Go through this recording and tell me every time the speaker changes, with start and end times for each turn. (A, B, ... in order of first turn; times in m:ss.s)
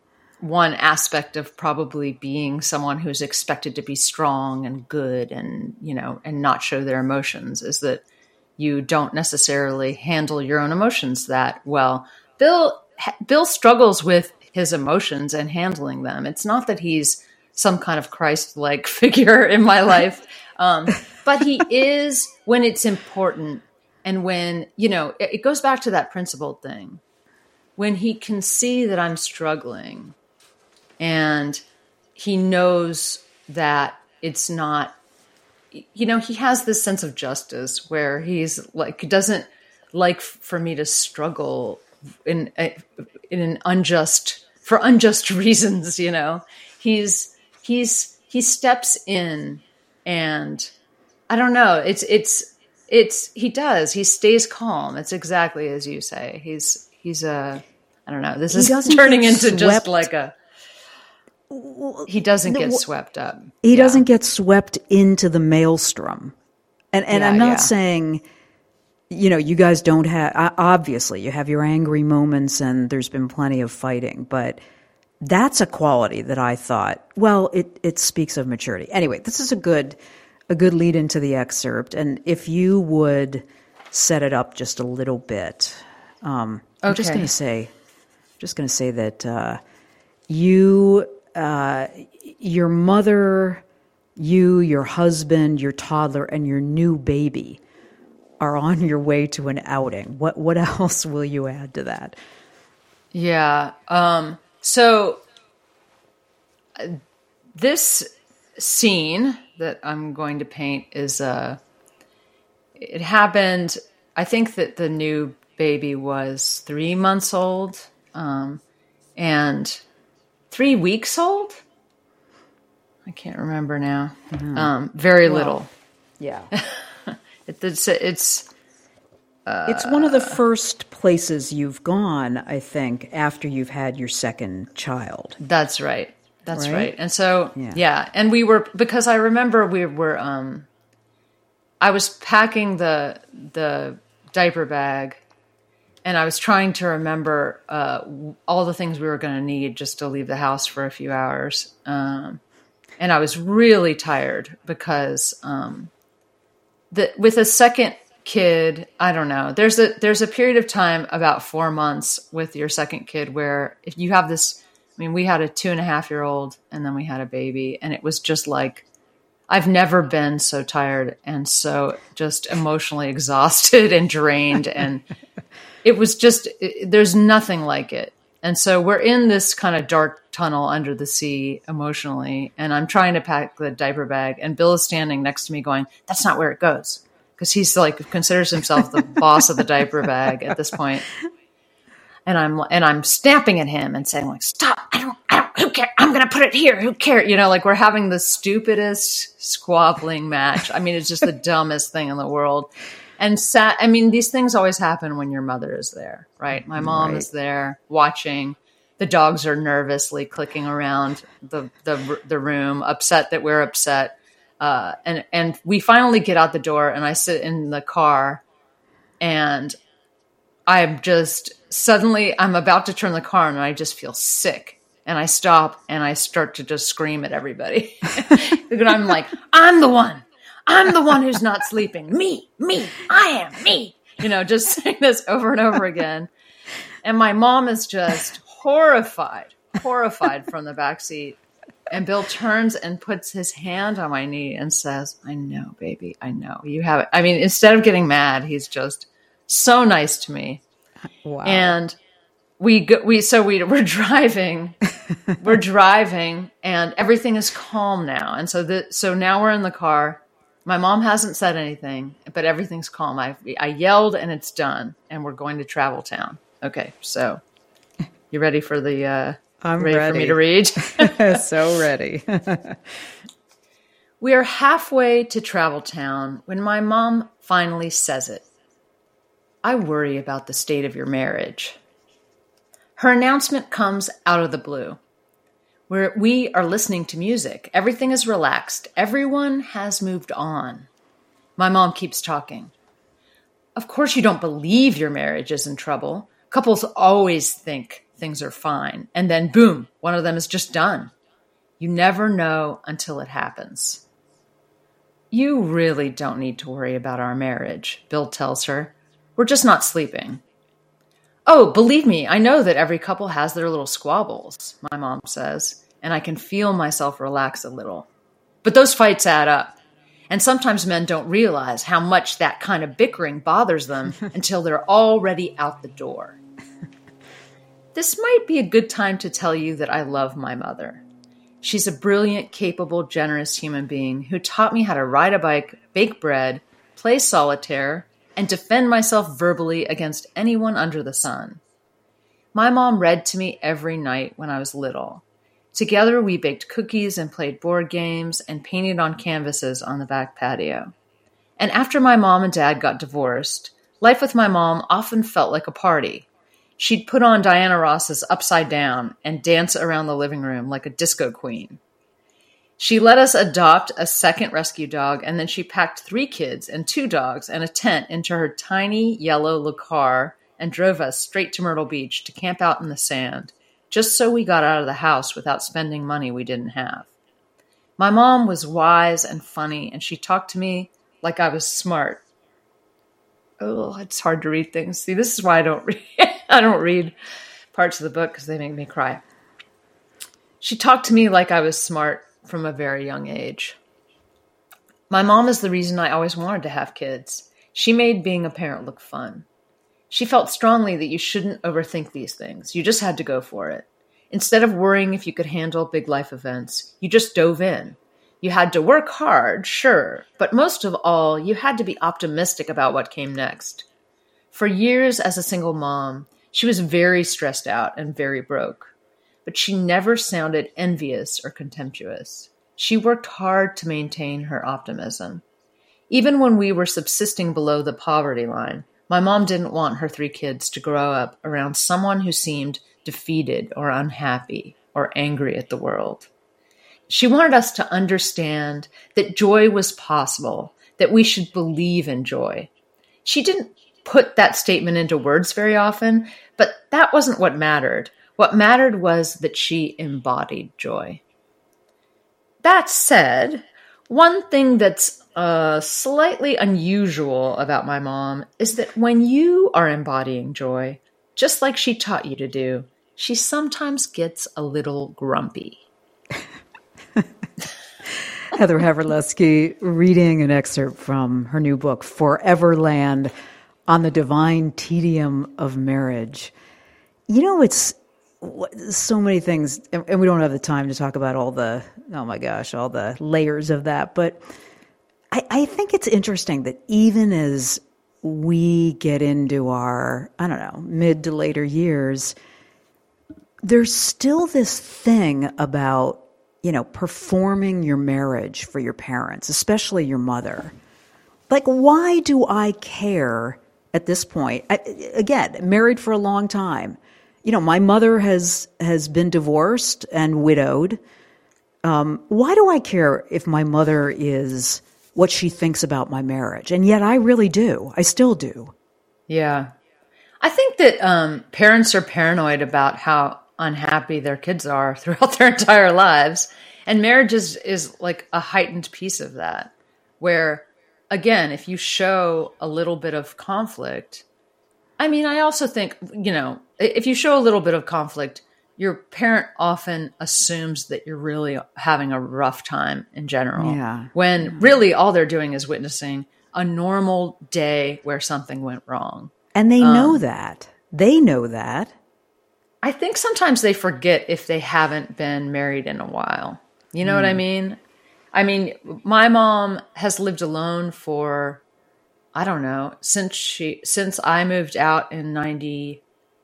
0:00.4-0:08.0 A
0:08.6-0:27.0 A
0:27.8-0:30.2 A
0:31.0-0:31.6 A
0:32.2-0:35.0 A
0:35.7-0:50.7 A
0:51.3-1:00.4 A
0:58.5-1:00.0 B
1:01.5-1:02.8 B
1:02.1-1:04.1 A
1:03.6-1:06.4 B
1:06.9-1:08.2 B
1:07.1-1:07.7 A
1:09.1-1:14.6 B
1:15.2-1:20.0 B
1:20.5-1:27.7 B
1:26.8-1:27.3 A
1:28.4-1:29.6 B
1:30.3-1:33.6 B
1:34.2-1:37.6 B
1:38.4-1:42.2 B
1:43.1-1:45.2 A
1:46.8-1:47.0 A
1:47.5-1:51.6 A
1:52.8-1:58.6 A
1:59.2-1:59.8 A
2:00.5-2:01.6 A
2:03.0-2:05.7 A
2:04.3-2:04.7 B
2:05.2-2:05.6 B
2:06.2-2:06.5 B
2:06.5-2:08.5 A
2:09.4-2:10.4 A
2:09.7-2:15.4 B
2:15.4-2:20.7 A
2:16.5-2:16.9 B
2:21.8-2:25.2 A
2:26.0-2:32.4 A
2:33.0-2:35.9 A
2:36.9-2:48.9 A
2:49.5-2:55.0 A
2:55.8-3:11.1 A
3:12.3-3:38.4 A
3:26.7-3:27.2 B
3:39.2-3:39.7 A
3:40.7-3:56.3 A
3:57.0-4:01.4 A
4:01.9-4:10.6 A
4:11.2-4:11.8 B
4:11.4-4:12.0 A
4:12.6-4:14.8 A
4:15.4-4:27.4 A
4:28.3-4:31.4 A
4:29.6-4:32.8 B
4:34.2-4:38.5 A
4:39.6-4:41.8 A
4:43.0-4:45.0 A
4:45.9-4:50.9 A
4:51.6-4:52.7 A
4:53.8-5:01.1 A
5:01.8-5:04.0 A
5:05.3-5:10.4 A
5:11.5-5:18.1 A
5:18.6-5:19.8 A
5:20.3-5:26.4 A
5:28.0-5:31.0 A
5:31.6-5:41.6 A
5:42.5-5:50.9 A
5:51.6-5:56.3 A
5:56.8-6:01.8 A
6:02.8-6:17.1 A
6:18.0-6:22.2 A
6:23.6-6:27.1 A
6:27.7-6:29.2 A
6:30.6-6:33.8 A
6:35.1-6:39.4 A
6:40.1-6:53.9 A
6:54.5-6:58.9 A
6:59.4-7:05.4 A
7:06.1-7:16.3 A
7:17.1-7:22.7 A
7:23.2-7:31.2 A
7:32.6-7:45.8 A
7:48.5-7:53.3 B
7:53.9-7:56.5 B
7:57.3-8:04.4 B
8:05.3-8:12.3 B
8:13.6-8:20.8 B
8:21.5-8:31.0 B
8:31.8-8:38.7 B
8:39.3-8:39.7 A
8:40.4-8:54.2 A
8:55.0-9:10.2 A
9:03.6-9:04.6 B
9:09.6-9:11.9 B
9:12.8-9:17.8 A
9:17.0-9:17.4 B
9:18.3-9:21.6 A
9:22.3-9:26.0 A